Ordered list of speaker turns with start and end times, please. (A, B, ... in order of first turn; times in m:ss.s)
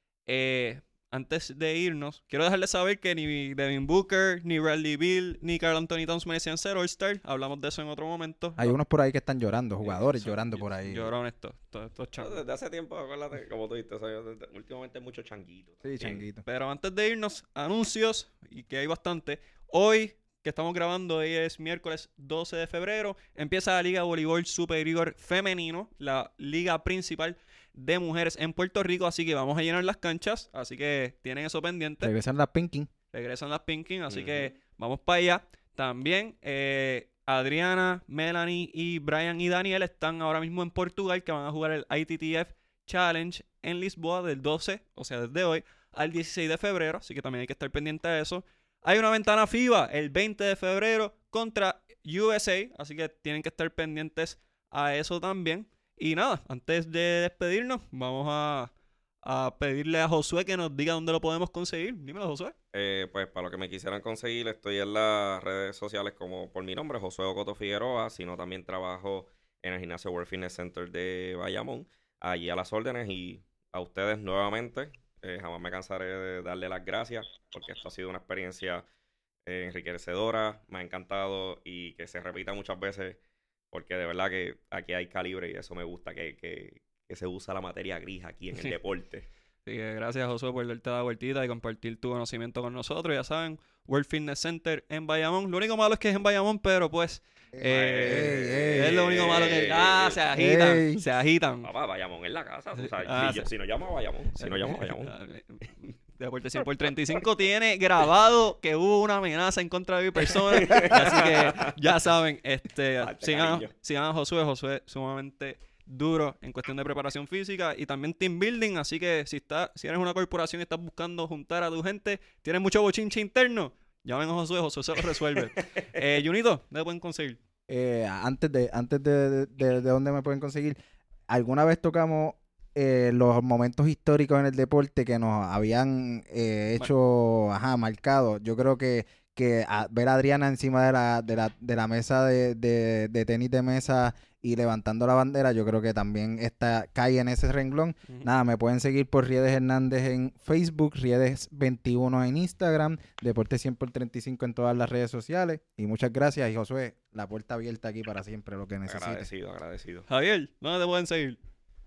0:00.2-0:08.8 A
0:08.6-0:11.1 B
0:09.8-0:12.4 A
0:12.2-0:16.2 C
0:15.8-0:16.4 B
0:16.4-0:32.1 A
0:32.0-0:32.9 B
0:33.1-0:58.7 A
0:34.1-0:34.5 C
0:59.2-1:02.5 A
1:02.7-1:18.8 C
1:19.4-1:23.2 C
1:23.7-1:29.3 C
1:29.6-1:41.7 A
1:37.6-1:40.2 C
1:38.0-1:39.2 B
1:40.3-1:41.0 B
1:41.6-1:45.1 C
1:42.8-1:43.5 A
1:44.4-2:07.4 A
1:50.5-1:51.7 C
1:53.0-1:53.7 C
2:07.7-2:10.8 B
2:11.3-2:39.3 B
2:38.8-2:40.1 C
2:40.1-2:41.4 A